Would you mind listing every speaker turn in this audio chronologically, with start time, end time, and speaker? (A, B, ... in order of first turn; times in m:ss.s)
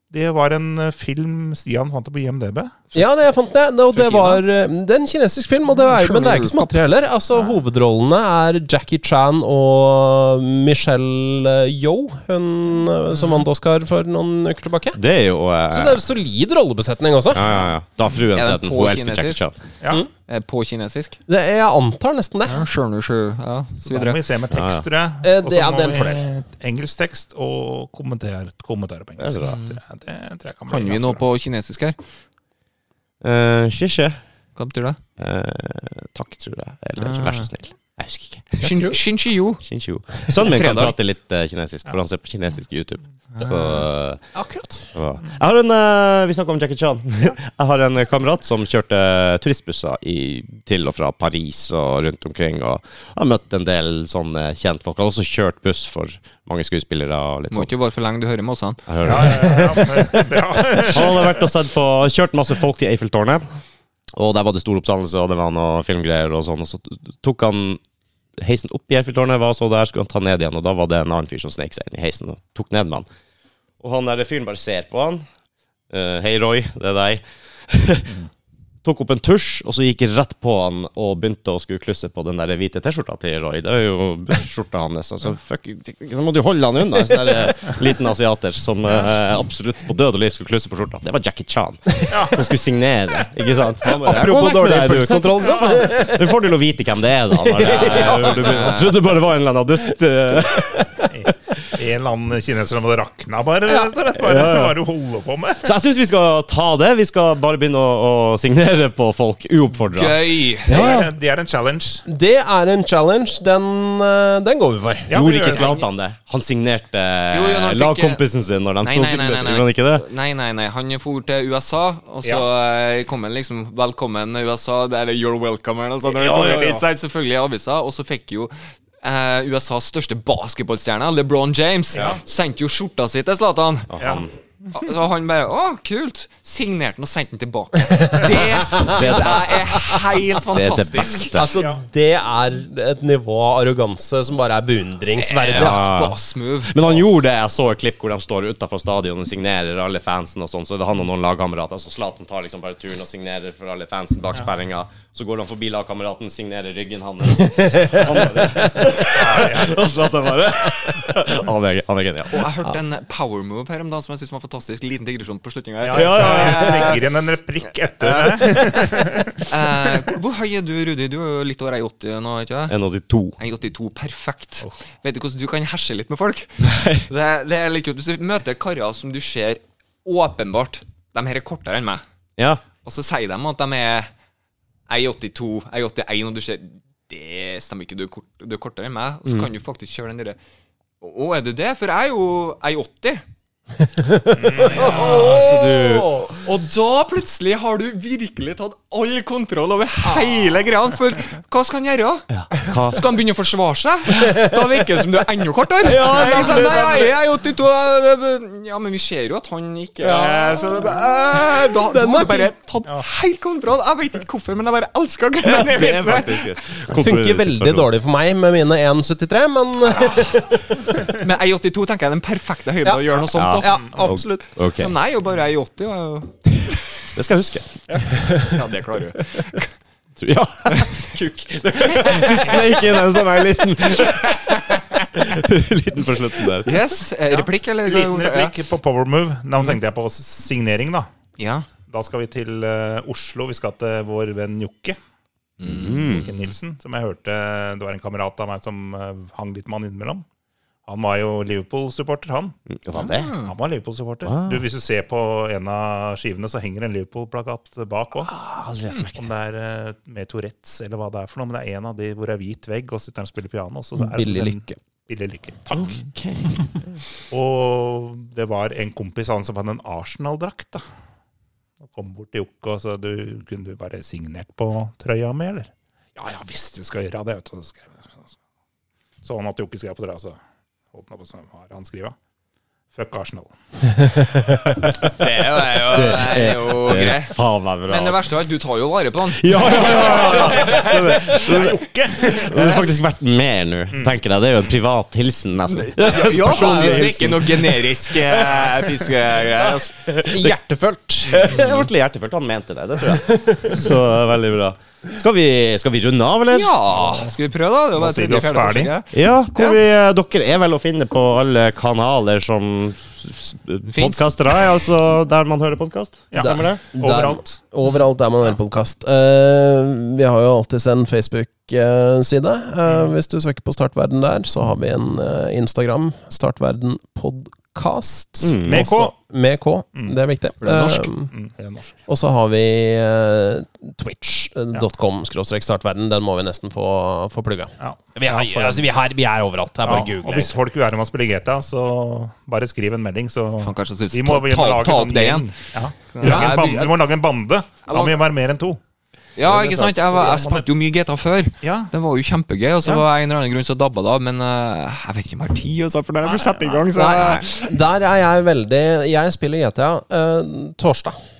0:00.1-0:02.8 A
0:02.9-0:15.0 B
0:03.9-0:04.4 C
0:05.7-0:06.8 C
0:14.9-0:16.0 D
0:15.7-0:17.4 B
0:17.3-0:19.6 D
0:18.3-0:19.4 C
0:20.3-0:21.2 C
0:21.3-0:22.7 B
0:22.5-0:24.2 C
0:23.8-0:31.2 A
0:24.5-0:24.8 D
0:25.2-0:26.3 B
0:29.2-0:29.6 D
0:29.4-0:29.8 C
0:30.7-0:32.0 C
0:33.2-0:34.2 D
0:34.6-0:35.0 C
0:35.2-0:38.7 D
0:37.0-0:37.5 C
0:38.6-0:39.6 C
0:38.6-0:39.0 B
0:39.6-0:44.2 D
0:40.3-0:40.9 C
0:43.4-0:43.8 C
0:44.3-0:44.9 B
0:44.9-0:57.7 D
0:57.5-0:59.5 C
0:58.9-0:59.9 D
0:59.0-1:01.5 A
1:00.8-1:03.4 D
1:04.1-1:07.8 D
1:08.4-1:13.0 D
1:13.8-1:15.2 D
1:15.9-1:18.2 D
1:18.8-1:40.8 D
1:32.1-1:32.4 A
1:33.9-1:36.3 B
1:35.4-1:35.8 A
1:37.4-1:38.7 B
1:37.7-1:39.0 C
1:41.1-1:45.7 A
1:44.2-1:44.8 D
1:45.6-1:50.2 D
1:49.9-1:50.9 C
1:50.7-1:51.1 B
1:50.7-1:52.0 A
1:52.0-1:55.2 B
1:55.1-1:55.7 A
1:55.1-2:00.0 D
1:55.4-1:55.8 C
1:57.3-1:58.2 C
1:58.8-2:13.9 C
2:06.1-2:06.8 D
2:11.9-2:12.2 A
2:13.9-2:14.3 D
2:14.0-2:14.2 A
2:14.7-2:21.4 C
2:17.9-2:20.0 B
2:18.6-2:21.5 D
2:21.3-2:25.9 B
2:21.4-2:21.8 A
2:25.2-2:27.0 C
2:25.4-2:42.7 D
2:37.4-2:38.9 B
2:39.1-2:39.8 A
2:42.3-2:47.0 C
2:45.8-2:49.5 A
2:45.9-2:46.9 D
2:48.0-2:52.7 C
2:52.7-2:53.4 D
2:53.4-3:02.0 C
3:02.4-3:02.6 D
3:02.8-3:04.1 C
3:04.9-3:10.4 C
3:11.0-3:13.2 C
3:13.9-3:16.4 B
3:14.4-3:15.3 A
3:14.7-3:36.4 C
3:14.9-3:16.3 D
3:20.0-3:20.6 B
3:22.3-3:23.1 D
3:25.8-3:27.1 D
3:26.0-3:27.0 B
3:30.0-3:32.5 B
3:35.5-3:37.9 D
3:36.8-3:41.2 B
3:40.0-3:40.2 C
3:41.1-3:43.7 C
3:43.3-3:44.9 D
3:43.6-3:44.5 B
3:43.7-3:44.1 A
3:44.8-3:46.4 C
3:47.1-3:47.7 D
3:47.9-3:49.7 C
3:50.2-3:54.6 D
3:50.7-3:52.9 C
3:53.9-3:55.0 C
3:55.1-3:56.8 D
3:56.6-3:58.5 C
3:57.3-4:01.1 A
4:01.4-4:01.7 C
4:01.9-4:05.0 A
4:05.6-4:06.4 C
4:05.6-4:06.3 D
4:06.0-4:10.2 A
4:10.9-4:12.6 A
4:12.7-4:13.3 D
4:12.9-4:13.5 C
4:13.4-4:18.3 A
4:14.2-4:14.6 D
4:18.3-4:19.3 D
4:19.1-4:25.9 A
4:24.0-4:24.8 B
4:25.7-4:27.0 D
4:27.3-4:30.8 A
4:31.8-4:38.3 A
4:39.2-4:40.4 A
4:40.9-4:42.1 A
4:42.9-4:43.5 A
4:44.8-4:48.2 D
4:45.0-4:51.7 C
4:49.3-4:57.8 D
4:50.0-4:52.8 A
4:52.4-4:53.0 C
4:53.9-4:54.2 A
4:55.7-4:59.9 C
4:56.4-4:57.5 B
4:58.3-4:58.7 B
4:59.5-5:01.7 B
5:00.0-5:00.6 D
5:01.3-5:06.7 D
5:03.0-5:03.8 B
5:06.5-5:09.8 C
5:07.0-5:07.3 A
5:08.0-5:08.9 A
5:09.1-5:16.8 D
5:13.9-5:14.3 C
5:16.3-5:17.6 A
5:16.4-5:31.3 B
5:22.8-5:23.1 A
5:28.4-5:28.8 D
5:28.6-5:29.1 A
5:30.6-5:31.1 C
5:31.3-5:31.9 A
5:32.1-5:40.5 B
5:37.8-5:38.8 A
5:39.8-5:48.8 A
5:43.6-5:47.0 C
5:46.2-5:46.5 B
5:47.9-5:48.2 C
5:49.4-5:57.7 C
5:49.5-5:49.8 B
5:49.5-5:50.7 A
5:51.6-5:51.9 A
5:56.2-5:56.9 A
5:56.9-6:01.2 B